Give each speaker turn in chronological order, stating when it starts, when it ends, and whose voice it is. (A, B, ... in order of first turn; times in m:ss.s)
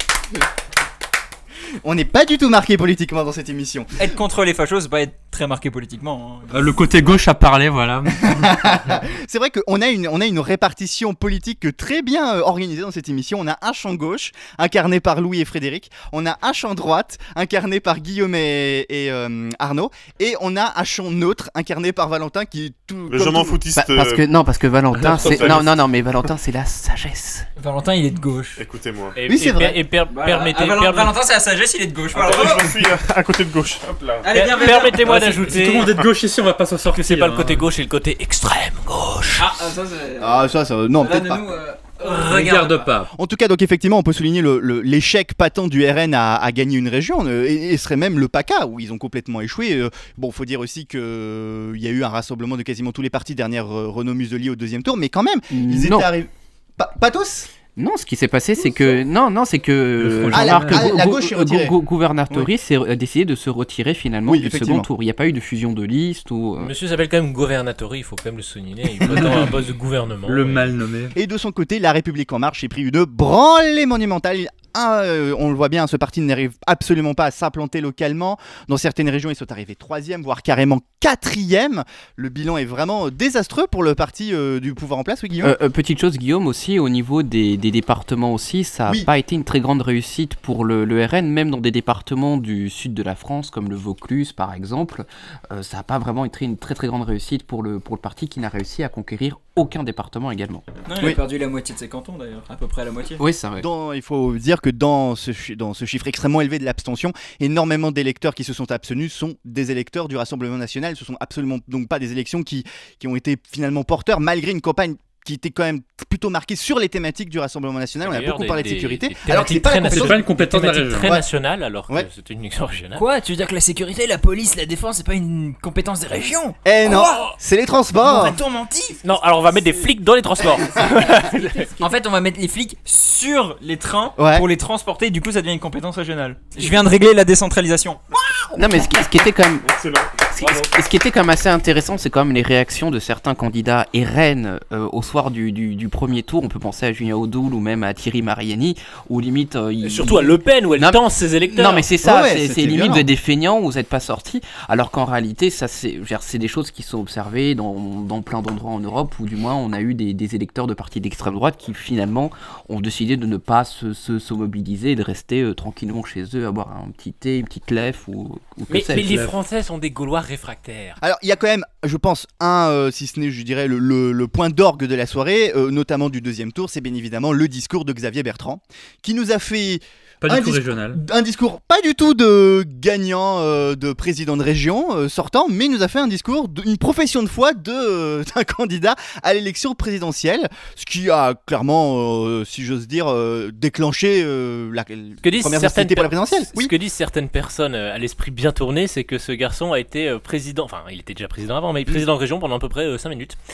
0:01.8-0:04.1 A
0:04.0-0:07.2 B
0:06.5-0:08.7 C
0:08.2-0:23.6 A
0:23.1-0:24.2 D
0:23.7-0:27.5 E
0:24.9-0:25.7 D
0:27.6-0:28.6 B
0:28.6-0:29.2 D
0:29.1-0:31.1 F
0:29.3-0:29.8 A
0:30.1-0:32.8 B
0:32.1-0:34.3 D
0:34.2-0:35.8 B
0:34.2-0:36.0 F
0:35.0-0:37.6 C
0:36.9-0:39.7 F
0:39.4-0:42.9 B
0:40.2-0:41.5 A
0:42.0-0:43.1 C
0:43.1-0:57.5 A
0:55.5-0:56.1 E
0:57.8-1:06.7 E
1:00.0-1:00.9 C
1:00.3-1:01.7 A
1:04.2-1:04.9 A
1:06.6-1:10.8 F
1:09.1-1:09.4 C
1:10.2-1:11.1 C
1:11.1-1:25.5 A
1:25.4-1:40.6 E
1:40.8-1:43.2 B
1:43.2-1:43.7 E
1:43.6-2:00.3 A
1:58.0-2:03.0 F
1:59.9-2:01.1 C
2:02.9-2:07.3 B
2:06.6-2:08.4 A
2:08.0-2:09.0 B
2:09.0-2:11.7 F
2:11.2-2:18.0 B
2:14.2-2:14.5 A
2:18.5-2:19.7 E
2:19.6-2:20.1 D
2:20.3-2:49.3 E
2:29.8-2:31.9 F
2:32.0-2:33.0 A
2:48.7-2:51.0 F
2:49.0-2:49.3 C
2:51.0-3:16.7 A
3:00.2-3:01.0 C
3:15.2-3:23.4 F